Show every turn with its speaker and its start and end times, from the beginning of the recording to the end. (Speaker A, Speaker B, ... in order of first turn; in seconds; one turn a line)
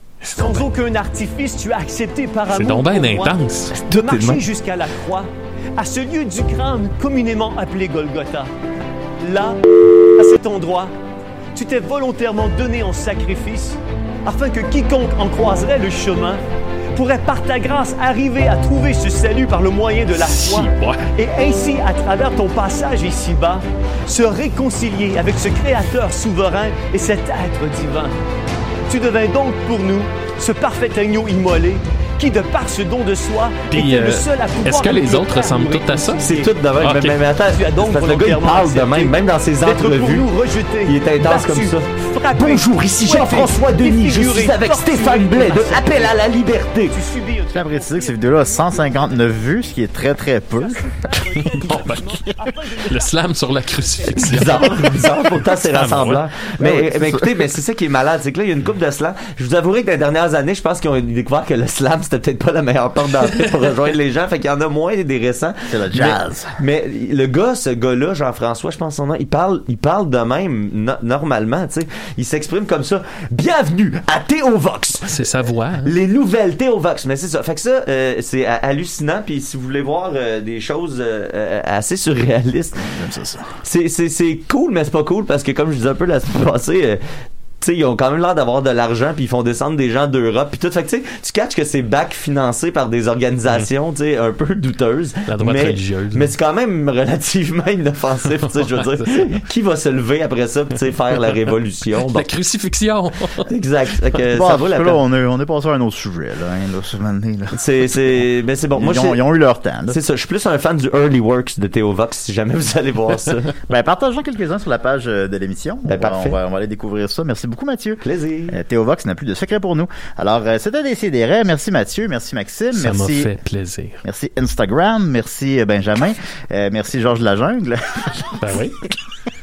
Speaker A: 0.2-0.7
Speaker B: 0.3-8.5
Speaker A: 2.5-4.4
Speaker C: 3.9-4.4
Speaker B: 9.2-9.6
Speaker B: 10.1-10.9
Speaker B: 11.5-16.4
Speaker B: 16.9-28.1
Speaker A: 20.1-21.1
Speaker B: 28.9-36.5
Speaker A: 33.7-37.2
Speaker C: 36.2-40.3
Speaker B: 37.5-46.3
Speaker C: 40.9-47.0
Speaker B: 46.9-48.9
Speaker D: 47.5-51.0
Speaker B: 50.6-53.1
Speaker A: 51.5-52.0
Speaker A: 52.9-54.9
Speaker B: 53.9-54.3
Speaker C: 54.2-75.2
Speaker A: 55.5-56.2
Speaker D: 56.6-57.5
Speaker D: 65.7-66.6
Speaker A: 75.0-75.9
Speaker C: 75.8-82.8
Speaker D: 82.8-83.6
Speaker C: 83.6-87.0
Speaker C: 87.6-102.3
Speaker A: 95.3-96.3
Speaker A: 98.7-99.2
Speaker A: 102.1-103.5
Speaker C: 103.5-105.0
Speaker D: 104.3-107.6
Speaker C: 107.5-109.2
Speaker D: 108.7-110.0
Speaker C: 109.9-113.6
Speaker D: 113.7-123.3
Speaker C: 115.9-116.4
Speaker C: 118.0-118.6
Speaker A: 122.7-124.0
Speaker D: 124.0-128.9
Speaker A: 128.4-128.8